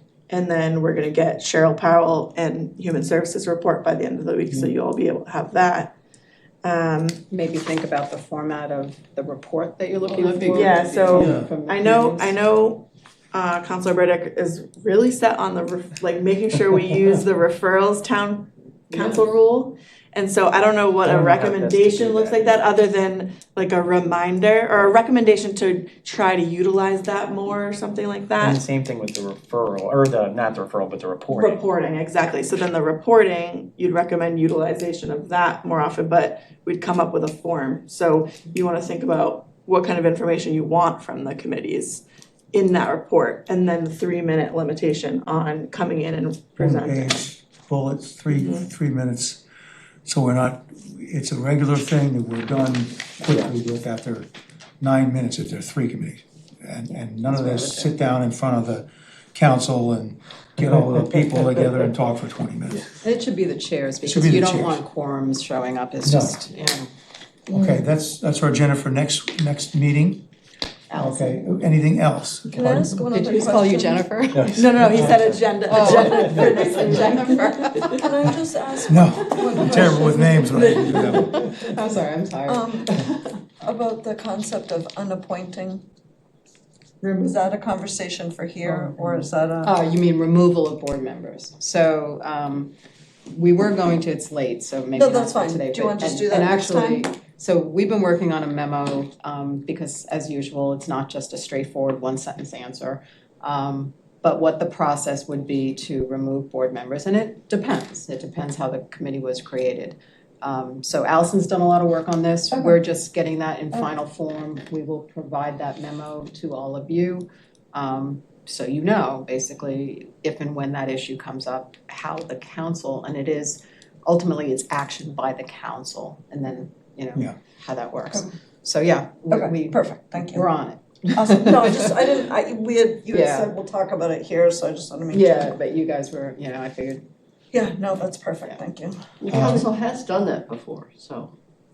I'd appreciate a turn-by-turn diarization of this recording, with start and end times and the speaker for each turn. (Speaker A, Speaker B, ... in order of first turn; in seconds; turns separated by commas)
Speaker A: 0.3-5.9, Speaker A: 6.6-7.2, Speaker B: 7.3-12.3, Speaker C: 10.1-11.3, Speaker A: 10.5-28.6, Speaker D: 11.2-11.5, Speaker E: 21.0-22.6, Speaker E: 28.4-31.6, Speaker A: 31.3-47.2, Speaker D: 46.6-49.4, Speaker A: 48.3-48.7, Speaker D: 50.1-54.3, Speaker E: 53.2-53.5, Speaker D: 54.8-62.9, Speaker B: 63.0-66.9, Speaker D: 64.0-64.8, Speaker D: 66.0-66.4, Speaker D: 67.5-70.3, Speaker B: 70.9-71.4, Speaker D: 70.9-72.9, Speaker F: 72.5-74.1, Speaker B: 73.0-74.7, Speaker D: 74.4-75.2, Speaker A: 74.5-78.1, Speaker B: 75.7-78.0, Speaker F: 77.0-77.3, Speaker F: 77.9-81.5, Speaker D: 78.9-81.7, Speaker B: 81.1-83.2, Speaker F: 82.5-83.1, Speaker F: 83.6-85.8, Speaker F: 87.0-89.8, Speaker B: 88.9-92.7, Speaker B: 93.3-132.0, Speaker F: 95.0-97.1, Speaker F: 129.3-130.5, Speaker F: 131.1-135.6, Speaker B: 133.1-133.5, Speaker B: 135.1-137.0, Speaker F: 137.5-139.0, Speaker C: 139.2-141.3, Speaker D: 139.3-139.7